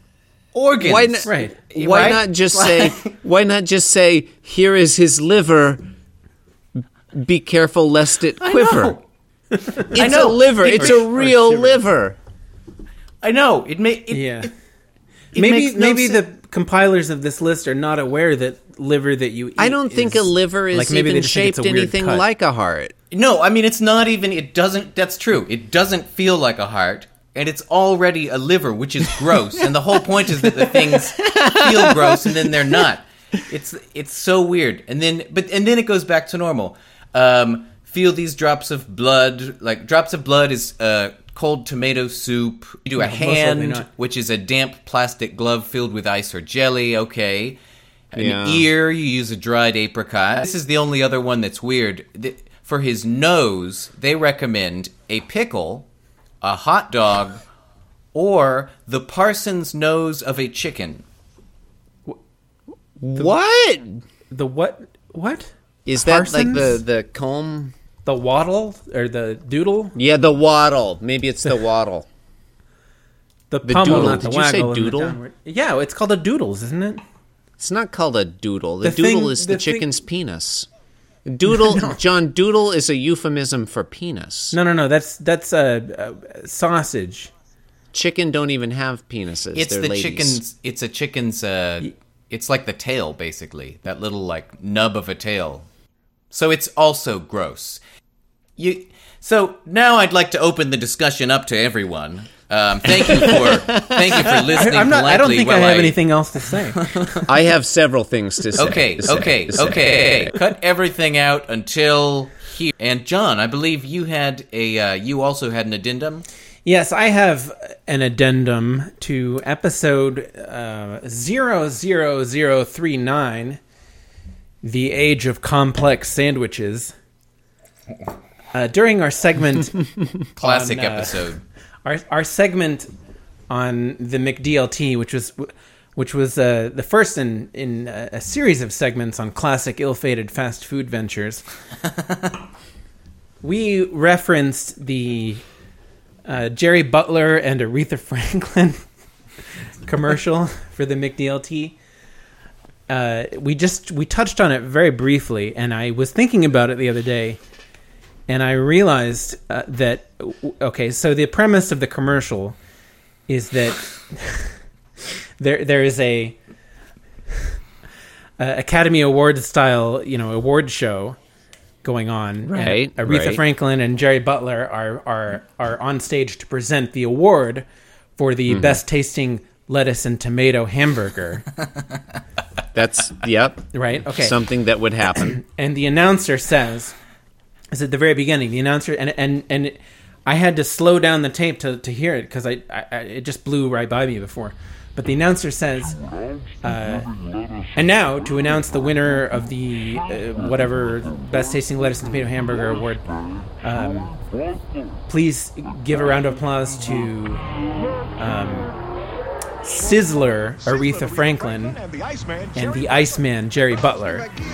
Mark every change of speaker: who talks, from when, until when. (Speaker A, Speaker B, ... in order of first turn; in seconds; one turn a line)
Speaker A: 0.5-3.1
Speaker B: 0.8-5.8
Speaker C: 1.2-1.5
Speaker B: 7.1-9.0
Speaker A: 8.5-8.9
Speaker C: 9.5-9.9
Speaker A: 9.8-11.1
Speaker B: 9.9-12.2
Speaker C: 10.8-11.8
Speaker A: 13.2-14.5
Speaker C: 14.1-14.5
Speaker A: 15.3-16.2
Speaker C: 15.3-22.2
Speaker B: 19.6-22.9
Speaker A: 23.1-47.6
Speaker B: 30.4-32.8
Speaker C: 43.0-43.9
Speaker A: 48.1-55.9
Speaker B: 48.1-48.7
Speaker A: 56.4-57.4
Speaker A: 58.1-61.0
Speaker B: 63.0-64.0
Speaker C: 64.3-66.8
Speaker B: 65.8-67.7
Speaker C: 68.0-70.0
Speaker B: 69.9-72.1
Speaker C: 73.5-77.0
Speaker B: 73.6-75.2
Speaker B: 77.6-80.7
Speaker C: 78.8-79.9
Speaker B: 81.2-84.5
Speaker C: 81.6-81.9
Speaker C: 84.5-87.3
Speaker B: 87.9-90.4
Speaker A: 89.5-95.6
Speaker A: 96.3-97.8
Speaker A: 98.6-106.0
Speaker B: 102.9-104.5
Speaker C: 104.5-106.8
Speaker A: 106.8-107.2
Speaker B: 107.2-110.3
Speaker A: 108.5-116.2
Speaker C: 110.2-110.5
Speaker C: 116.6-123.6
Speaker C: 124.6-126.9
Speaker C: 128.5-129.8
Speaker C: 130.3-131.3
Speaker A: 130.4-131.4
Speaker C: 131.8-132.9
Speaker C: 133.5-141.4
Speaker C: 143.4-145.4
Speaker C: 146.2-148.8
Speaker C: 149.8-151.8
Speaker C: 152.9-157.4
Speaker C: 158.3-162.6
Speaker C: 163.3-164.6
Speaker C: 165.4-166.4
Speaker C: 168.4-171.2
Speaker C: 171.8-181.5
Speaker B: 172.5-173.4
Speaker B: 178.5-178.8
Speaker B: 182.7-185.4
Speaker C: 183.7-184.4
Speaker C: 185.2-186.9
Speaker C: 187.7-195.9
Speaker C: 196.6-197.1
Speaker C: 197.7-203.0
Speaker C: 203.6-204.2
Speaker C: 205.1-207.4
Speaker C: 208.2-208.7
Speaker C: 209.6-211.8
Speaker C: 212.5-214.3